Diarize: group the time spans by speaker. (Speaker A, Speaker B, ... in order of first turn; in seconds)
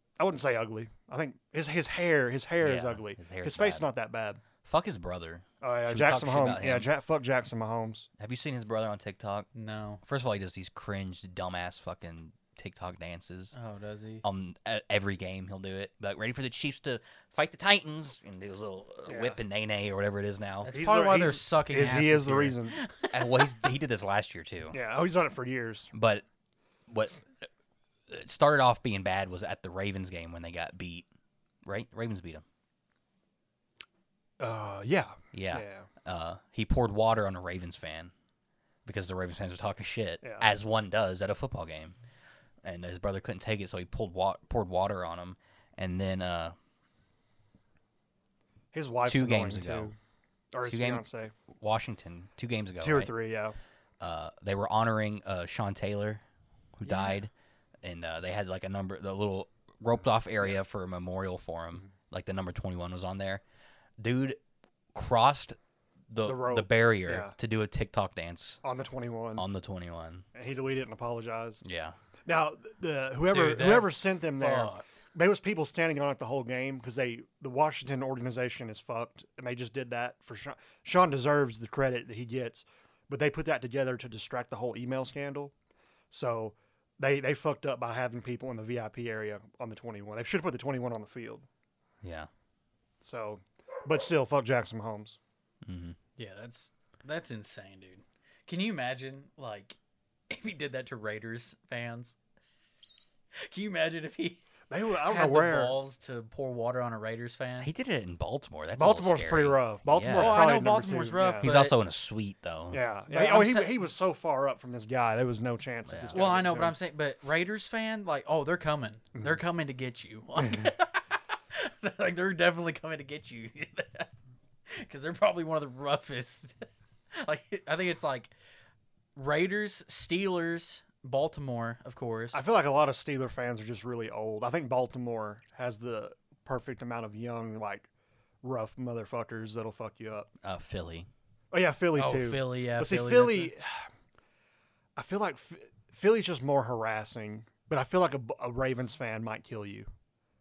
Speaker A: 0.2-4.4, 5.6-8.1, 19.1-19.4, 20.6-22.8, 24.7-25.9, 34.4-35.9, 40.2-40.5, 48.7-50.0, 50.5-51.3, 52.8-53.5, 66.2-67.3, 68.6-69.4, 70.3-71.6, 72.2-85.5, 86.1-91.5, 93.0-95.2, 104.7-105.8, 108.8-111.5, 112.7-116.8, 120.4-120.7, 132.3-137.9, 138.4-140.3, 141.5-143.9, 144.9-149.9
Speaker B: 2.6-3.9, 4.6-6.9, 8.2-9.5, 10.0-13.5, 14.2-20.7, 23.1-24.8, 25.9-26.2, 26.9-27.3, 28.1-31.1, 31.6-32.4, 35.3-38.1, 38.9-42.0, 42.6-46.5, 49.0-49.9, 50.6-53.1, 54.0-56.2, 56.8-57.3, 57.8-63.4, 64.0-64.4, 64.9-65.5, 66.1-68.6, 69.3-70.2, 71.6-72.0, 92.0-92.3, 95.6-96.0, 107.6-110.6, 111.4-112.8, 115.8-116.2, 140.4-141.1
Speaker C: 9.5-10.0, 13.5-14.2, 20.6-23.6, 56.9-57.2, 73.3-75.0, 96.2-99.8, 100.3-102.2, 103.3-104.4, 105.0-107.7, 110.1-111.8, 113.1-113.8, 116.1-124.1, 124.7-128.3, 129.2-132.4, 141.9-143.5